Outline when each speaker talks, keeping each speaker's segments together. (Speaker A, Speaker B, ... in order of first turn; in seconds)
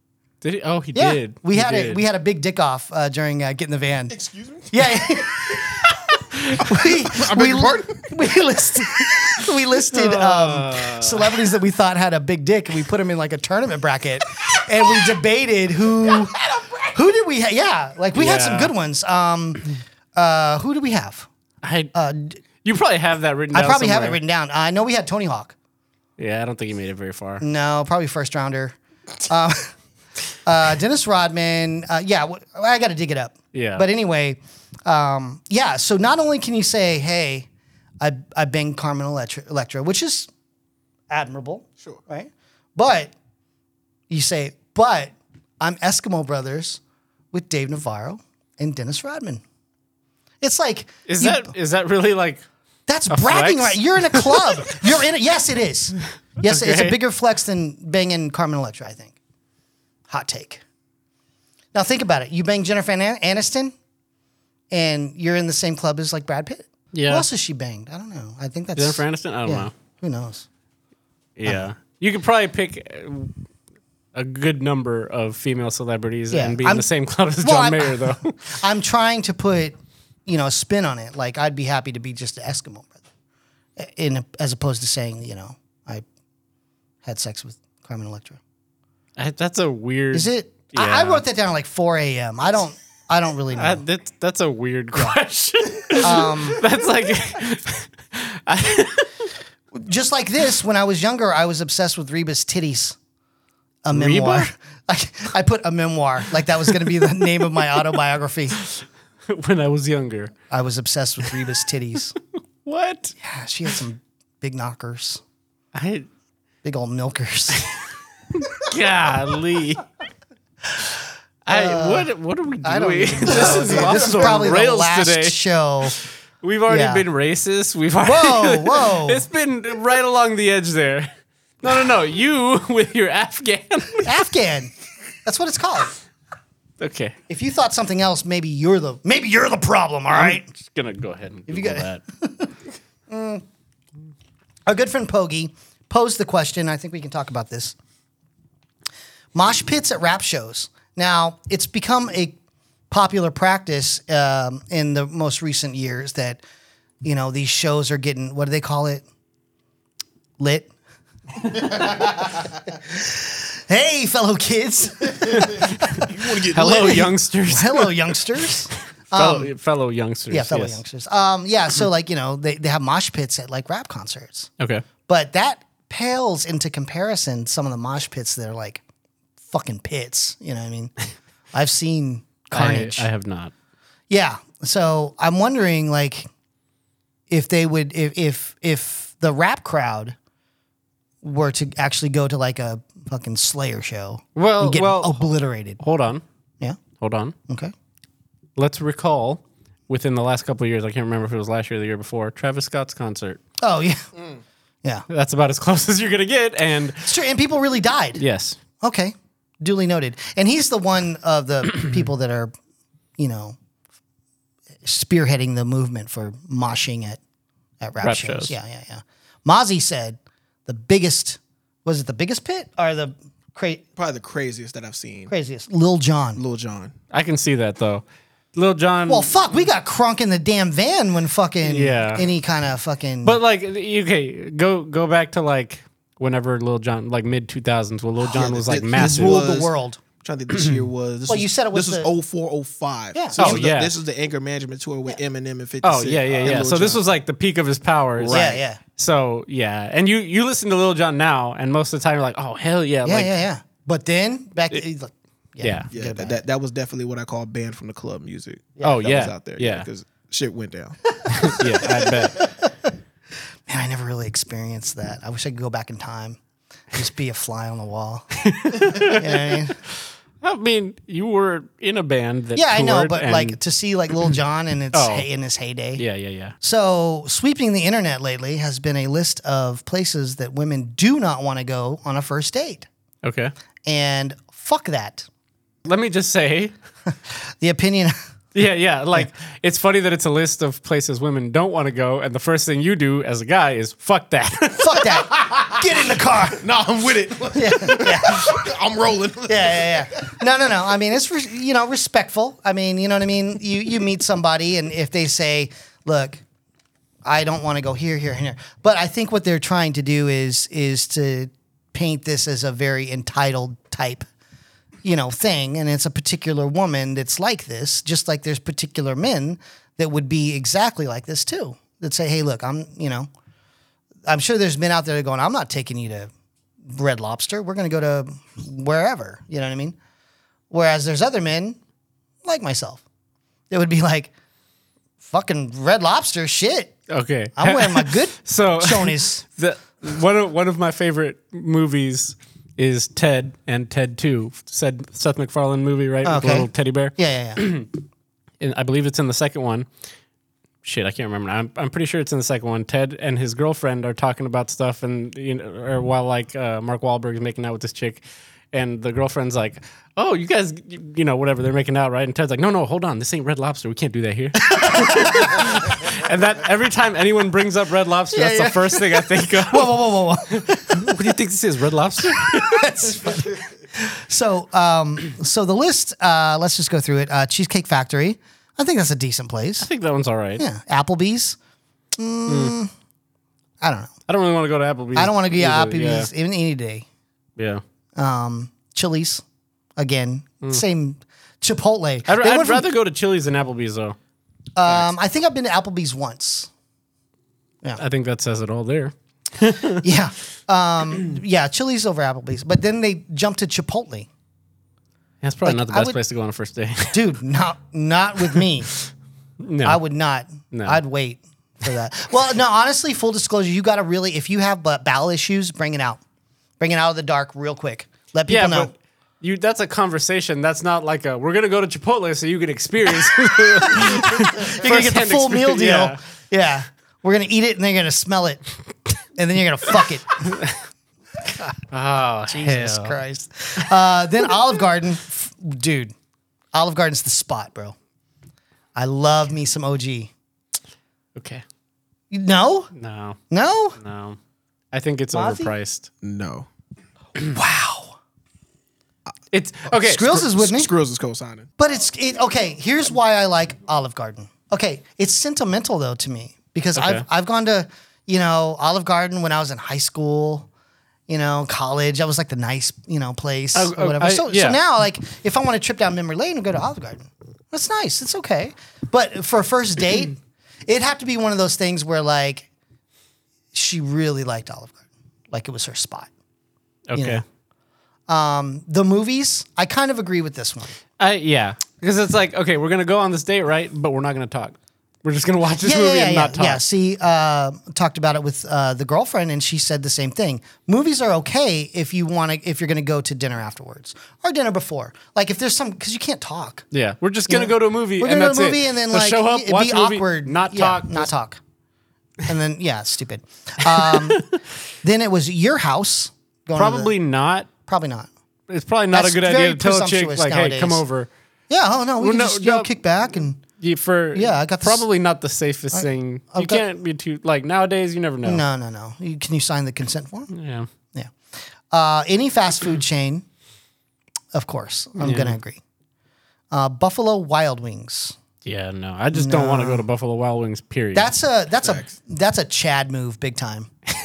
Speaker A: 0.4-2.0, 6.4-6.7, 9.9-11.3, 18.1-18.7, 21.6-21.9, 22.6-24.2, 26.2-27.4, 33.5-33.9, 51.1-52.4, 53.1-54.8, 56.4-57.0, 66.9-67.3, 68.8-69.7, 71.4-73.3, 74.2-78.5, 89.2-91.2, 93.5-99.1, 103.9-104.5, 108.6-110.3, 112.7-113.1, 115.7-116.1, 118.5-119.8, 121.5-125.4, 126.0-131.1, 131.6-134.2, 136.8-137.2, 140.1-142.0, 165.3-165.6, 166.5-168.0, 169.1-170.8, 174.6-174.8, 182.5-183.5, 194.3-195.2, 195.8-196.2, 197.0-197.3, 198.6-203.4, 205.1-207.1, 208.2-208.6, 218.0-218.5, 227.1-228.0, 228.6-229.3, 231.6-232.3, 233.2-239.4, 243.4-243.9, 245.8-253.4, 255.6-255.9, 258.8-259.9, 261.3-262.4, 268.4-269.6, 270.4-273.6, 274.9-275.3, 276.0-276.6, 283.2-283.5, 285.9-286.7, 288.5-295.1, 337.1-347.9, 348.6-349.9, 350.8-370.0, 370.5-372.9, 379.8-380.6, 382.5-382.8, 384.3-386.3, 392.3-394.2, 398.0-400.0, 405.4-407.2, 409.6-410.0, 410.7-411.0, 418.5-426.2, 431.9-433.2, 441.4-441.6, 442.9-443.4, 444.0-444.4, 444.9-446.1, 449.5-450.4, 457.0-457.2, 463.7-464.8, 477.1-477.4, 481.2-486.8, 496.9-501.3, 504.0-504.4, 506.8-507.7, 508.7-511.3, 512.2-512.9, 513.8-518.6, 520.5-520.9, 525.2-525.6, 528.6-531.3
Speaker B: 0.9-4.2, 4.7-5.5, 6.6-16.4, 16.9-21.3, 21.9-22.4, 23.5-25.6, 27.4-29.7, 30.5-37.5, 38.0-40.3, 41.1-43.1, 44.1-46.8, 47.3-49.4, 50.4-51.5, 52.9-59.2, 60.1-60.6, 61.7-63.7, 64.7-70.5, 76.3-76.9, 77.4-83.0, 83.8-86.0, 87.0-88.4, 90.1-93.8, 95.9-96.6, 99.7-103.0, 103.8-108.6, 110.5-112.2, 113.2-115.2, 116.6-117.7, 121.5-122.1, 122.6-126.0, 126.7-127.1, 128.0-129.3, 134.0-134.7, 135.2-135.9, 137.3-140.5, 141.5-142.5, 143.1-143.4, 144.7-147.8, 149.3-152.4, 152.9-156.4, 157.0-159.1, 160.4-160.7, 161.4-166.1, 167.5-169.5, 170.3-174.5, 175.1-178.8, 179.4-180.9, 181.5-183.1, 184.1-186.3, 187.3-190.2, 191.2-195.8, 197.5-197.7, 203.6-204.1, 207.0-208.2, 208.8-212.5, 213.2-213.6, 214.8-217.2, 217.8-223.8, 225.3-226.4, 229.1-233.4, 238.9-240.0, 241.3-242.1, 243.1-243.6, 248.3-248.8, 253.1-256.4, 258.8-259.0, 261.2-262.9, 263.7-266.4, 266.9-269.8, 272.6-276.0, 276.6-282.9, 283.9-285.3, 287.3-288.2, 294.8-296.7, 297.5-298.6, 299.5-306.4, 307.2-314.3, 315.0-323.3, 324.3-326.3, 326.9-330.0, 330.7-331.8, 332.4-333.0, 333.7-334.3, 335.2-337.0, 337.6-339.4, 346.2-347.6, 364.6-365.8, 368.3-371.4, 372.3-379.9, 380.6-381.6, 382.1-382.9, 383.8-384.1, 385.1-387.1, 388.2-389.4, 390.0-392.9, 394.8-396.7, 399.9-404.3, 405.6-406.2, 407.1-408.9, 409.8-416.2, 416.8-418.9, 423.9-428.6, 429.4-430.6, 432.5-436.1, 436.7-438.0, 439.0-440.3, 442.3-442.9, 443.5-444.0, 445.3-445.7, 447.4-448.2, 450.0-450.9, 451.8-460.7, 461.3-472.7, 473.7-475.0, 475.5-476.3, 477.1-477.4, 478.3-480.9, 485.8-496.9, 497.5-501.6, 502.4-504.5, 505.0-507.1, 507.9-508.3, 509.1-511.0, 511.7-513.6, 514.3-515.0, 515.9-516.9, 518.4-520.5, 521.9-523.5, 524.5-525.8, 526.7-528.4, 529.3-530.1, 531.1-533.9
Speaker C: 4.1-5.7, 7.0-8.3, 166.0-167.1, 224.0-225.3, 226.4-226.9, 238.3-247.0, 248.2-248.6, 255.9-261.0, 295.3-295.7, 296.6-300.3, 446.2-446.7, 450.1-451.7, 531.8-532.1